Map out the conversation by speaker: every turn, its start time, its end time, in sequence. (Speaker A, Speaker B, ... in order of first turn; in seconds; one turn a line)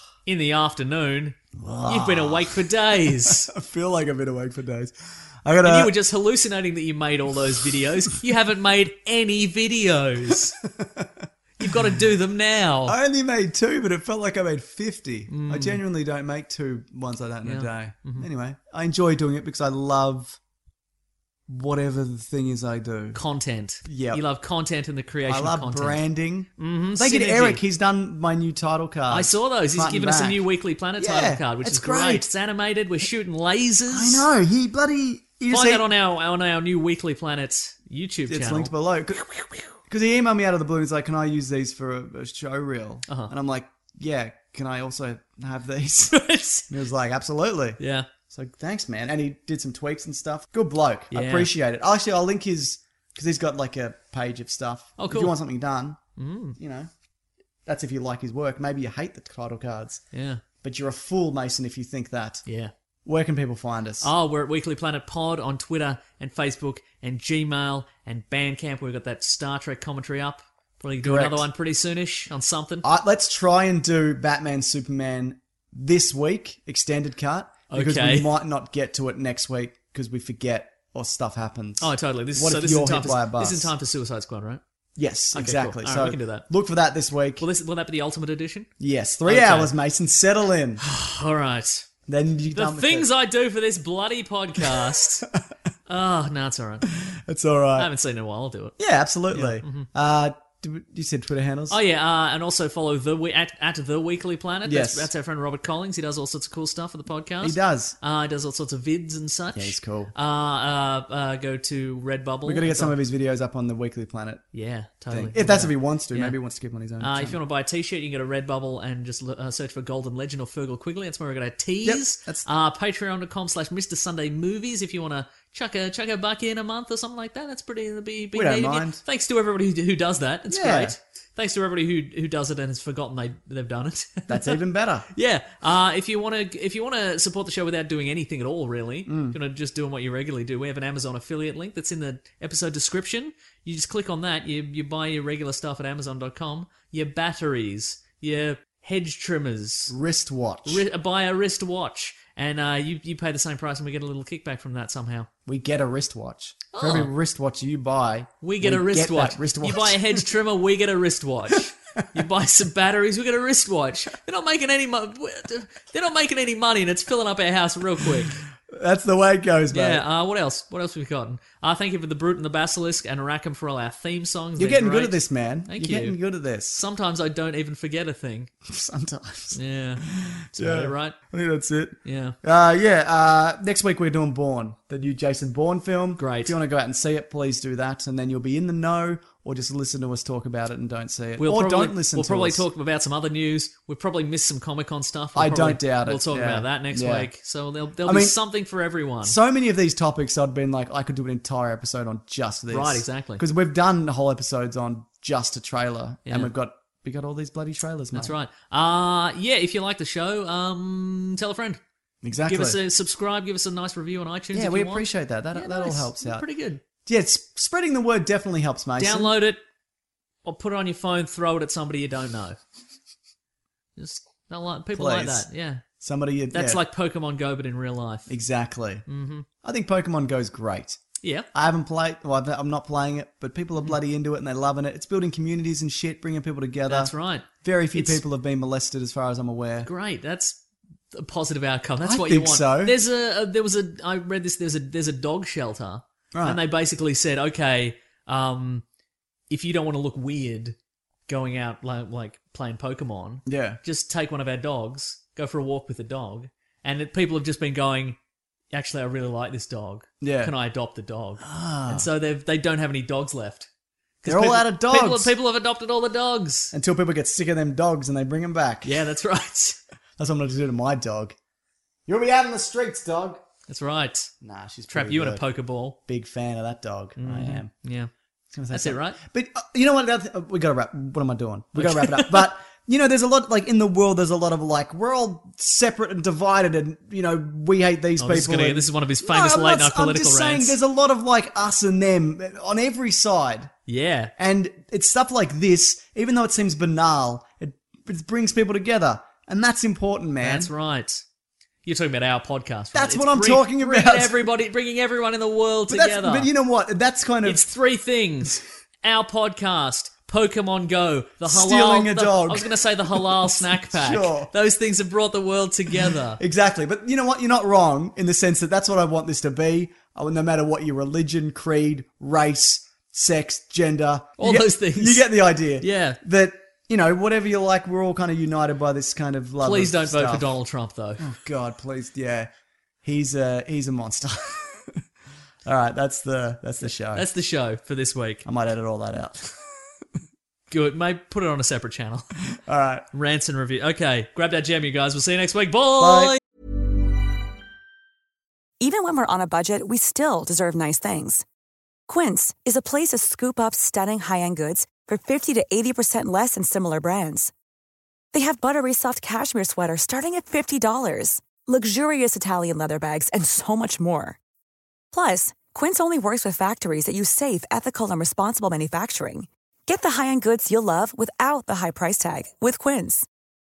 Speaker A: 0.3-3.5
Speaker B: 1.6-6.0
Speaker A: 5.6-10.6
Speaker B: 10.6-11.9
Speaker A: 11.6-13.0
Speaker B: 12.9-20.4
Speaker A: 15.3-15.8
Speaker A: 17.4-18.3
Speaker B: 21.5-23.2
Speaker A: 23.1-26.0
Speaker B: 23.9-24.2
Speaker B: 25.2-30.4
Speaker A: 26.6-27.6
Speaker A: 29.1-34.3
Speaker B: 31.0-32.3
Speaker B: 33.9-35.9
Speaker A: 35.5-39.7
Speaker B: 38.3-39.2
Speaker B: 39.9-56.0
Speaker A: 43.1-43.3
Speaker A: 46.1-46.7
Speaker A: 47.8-48.1
Speaker A: 51.1-51.5
Speaker A: 55.0-55.4
Speaker A: 56.2-56.6
Speaker B: 56.6-56.9
Speaker B: 57.7-60.0
Speaker A: 60.1-60.4
Speaker B: 60.6-62.4
Speaker A: 62.5-62.7
Speaker B: 63.0-64.1
Speaker A: 64.0-72.9
Speaker B: 71.0-71.5
Speaker B: 72.8-83.7
Speaker A: 77.7-78.3
Speaker A: 81.8-84.6
Speaker B: 85.0-87.4
Speaker A: 85.3-86.5
Speaker A: 87.4-88.7
Speaker B: 88.8-90.8
Speaker A: 89.2-89.7
Speaker A: 90.8-91.9
Speaker B: 92.1-93.1
Speaker A: 92.5-95.3
Speaker A: 95.9-96.9
Speaker B: 97.0-97.9
Speaker A: 97.8-98.8
Speaker B: 98.8-101.8
Speaker A: 99.3-99.9
Speaker A: 101.7-113.0
Speaker B: 104.7-105.1
Speaker B: 107.4-108.0
Speaker B: 109.5-110.1
Speaker B: 112.5-114.4
Speaker A: 114.5-116.4
Speaker B: 115.1-117.4
Speaker A: 117.0-134.6
Speaker B: 121.8-122.5
Speaker B: 128.3-129.0
Speaker B: 130.5-131.0
Speaker B: 134.3-135.1
Speaker A: 135.1-149.9
Speaker B: 139.1-139.4
Speaker B: 149.9-150.9
Speaker A: 150.7-155.3
Speaker B: 155.5-160.2
Speaker A: 156.7-157.1
Speaker A: 158.4-168.4
Speaker B: 168.2-170.0
Speaker A: 169.7-176.2
Speaker B: 174.6-176.8
Speaker A: 176.7-178.5
Speaker B: 178.7-192.7
Speaker A: 179.5-181.2
Speaker A: 182.0-182.4
Speaker A: 186.2-186.6
Speaker A: 191.4-199.4
Speaker B: 195.3-197.3
Speaker B: 198.0-198.4
Speaker B: 199.2-208.4
Speaker A: 202.7-203.4
Speaker A: 206.3-206.5
Speaker A: 208.1-211.8
Speaker B: 212.2-212.8
Speaker A: 212.5-216.8
Speaker B: 214.5-216.4
Speaker B: 217.1-219.3
Speaker A: 219.0-219.6
Speaker A: 220.4-222.6
Speaker A: 224.0-225.8
Speaker B: 224.9-225.5
Speaker B: 226.0-226.8
Speaker A: 226.5-228.3
Speaker B: 228.3-229.1
Speaker A: 229.1-229.5
Speaker B: 229.6-231.0
Speaker A: 231.2-231.5
Speaker B: 231.5-239.9
Speaker A: 236.9-238.2
Speaker A: 239.8-240.6
Speaker A: 241.1-248.8
Speaker B: 242.0-243.0
Speaker B: 246.3-246.6
Speaker A: 249.5-250.8
Speaker A: 251.3-258.2
Speaker B: 253.5-253.8
Speaker A: 258.7-263.7
Speaker B: 260.2-260.5
Speaker B: 261.4-262.1
Speaker A: 264.2-266.7
Speaker B: 264.2-265.3
Speaker B: 266.7-269.0
Speaker A: 268.9-269.8
Speaker B: 270.2-271.4
Speaker B: 272.1-273.4
Speaker A: 273.7-274.3
Speaker B: 274.4-275.4
Speaker A: 274.9-276.0
Speaker B: 276.1-277.7
Speaker A: 277.2-278.1
Speaker B: 278.5-293.7
Speaker A: 278.7-279.2
Speaker A: 281.8-282.5
Speaker A: 288.2-290.8
Speaker A: 293.9-294.3
Speaker B: 294.4-300.7
Speaker A: 300.4-301.2
Speaker A: 301.9-306.5
Speaker B: 302.9-304.5
Speaker B: 305.9-307.6
Speaker A: 307.4-316.4
Speaker B: 311.4-314.5
Speaker B: 316.4-330.5
Speaker A: 324.4-326.2
Speaker A: 329.6-331.3
Speaker B: 331.2-332.5
Speaker B: 333.0-335.0
Speaker B: 335.6-337.3
Speaker A: 337.1-338.4
Speaker B: 338.4-339.6
Speaker A: 340.7-342.3
Speaker B: 342.6-343.1
Speaker A: 343.1-346.4
Speaker B: 346.0-346.4
Speaker C: 348.8-351.4
Speaker C: 352.1-357.5
Speaker C: 358.3-364.4
Speaker C: 365.1-373.3